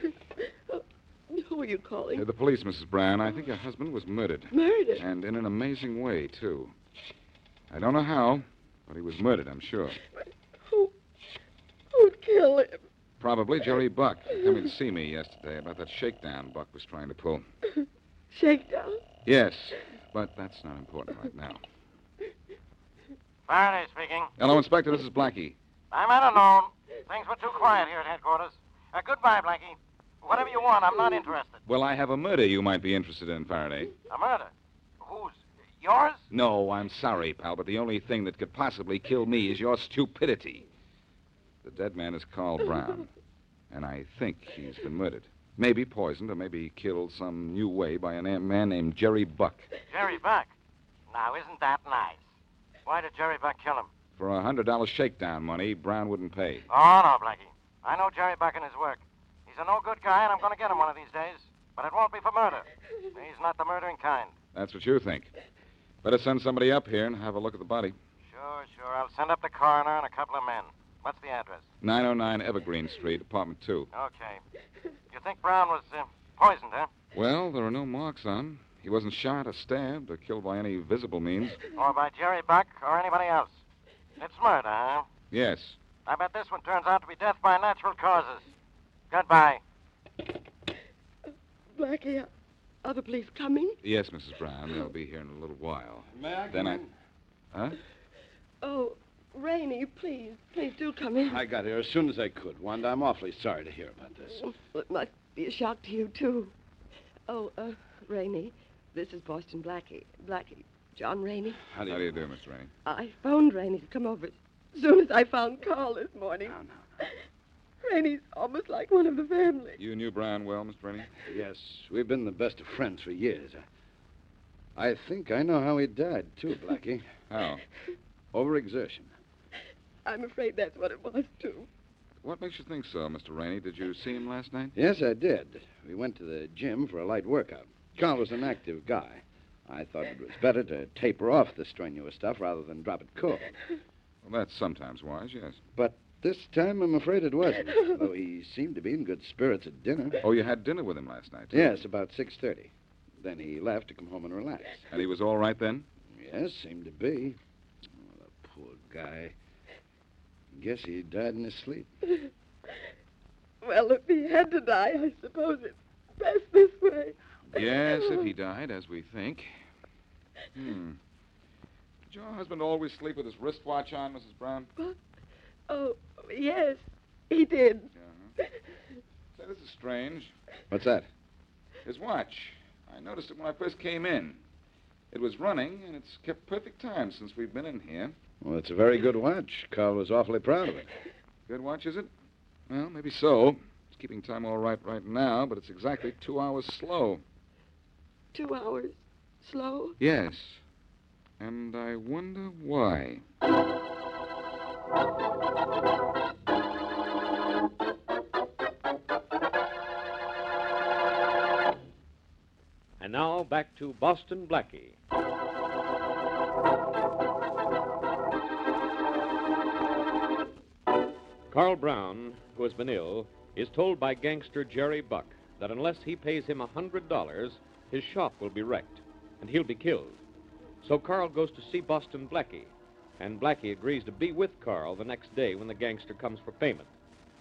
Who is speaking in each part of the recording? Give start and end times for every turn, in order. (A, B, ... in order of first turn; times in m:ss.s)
0:00.7-0:02.2 A
0:02.1-0:06.7 B
0:04.5-0:05.0 A
0:07.7-0:10.0 B
0:10.1-0:10.9 A
0:11.9-0:12.8 A
0:13.2-0:17.4 B
0:17.8-0:19.0 A
0:19.2-0:21.6 B
0:23.5-0:24.3 C
0:24.4-0:25.6 B
0:25.9-0:31.6 C
0:31.6-0:33.9 B
0:34.1-0:36.2 C
0:36.3-0:40.6 B
0:41.6-0:43.1 B
0:43.7-0:49.7 B
0:49.9-0:50.5 C
0:51.1-0:52.2 C
0:52.8-0:53.9 C
0:54.2-0:56.6 B
0:56.7-1:04.3 C
1:04.5-1:05.3 B
1:06.0-1:08.0 B
1:08.3-1:11.6 C
1:11.8-1:13.9 B
1:13.9-1:14.4 C
1:15.1-1:16.9 C
1:17.1-1:21.6 B
1:21.8-1:23.5 C
1:24.2-1:25.1 C
1:25.3-1:25.8 B
1:26.0-1:28.4 C
1:29.1-1:29.6 C
1:31.7-1:32.3 A
1:32.8-1:33.8 A
1:33.8-1:36.8 B
1:36.1-1:36.9 D
1:37.5-1:37.8 B
1:38.6-1:41.4 A
1:41.2-1:44.4 D
1:44.4-1:46.5 A
1:47.3-1:51.6 A
1:51.7-1:52.2 D
1:51.9-1:52.7 B
1:52.8-1:57.2 A
1:56.4-1:56.8 D
1:57.8-1:59.8 A
1:59.8-2:01.2 B
2:01.2-2:03.6 D
2:04.8-2:07.0 D
2:07.3-2:07.6 B
2:08.3-2:09.1 D
2:10.0-2:11.7 A
2:12.2-2:14.7 B
2:14.7-2:23.5 D
2:24.2-2:25.6 B
2:25.8-2:30.2 D
2:30.2-2:31.8 B
2:31.5-2:32.7 D
2:33.2-2:34.8 D
2:34.9-2:35.8 B
2:36.1-2:37.4 D
2:38.0-2:39.3 D
2:40.5-2:41.9 D
2:42.1-2:42.8 A
2:43.6-2:48.3 A
2:47.5-2:49.5 B
2:50.5-2:51.0 B
2:52.1-2:54.7 B
2:55.7-2:57.9 A
2:57.9-2:58.3 B
2:59.4-3:00.3 B
3:00.7-3:01.1 D
3:01.8-3:04.4 B
3:05.1-3:08.1 B
3:08.4-3:10.9 D
3:11.5-3:12.1 B
3:12.7-3:17.2 B
3:18.3-3:20.0 A
3:20.0-3:20.6 B
3:21.4-3:23.2 B
3:33.0-3:35.0 E
3:41.5-3:50.2 E
3:50.8-3:56.9 E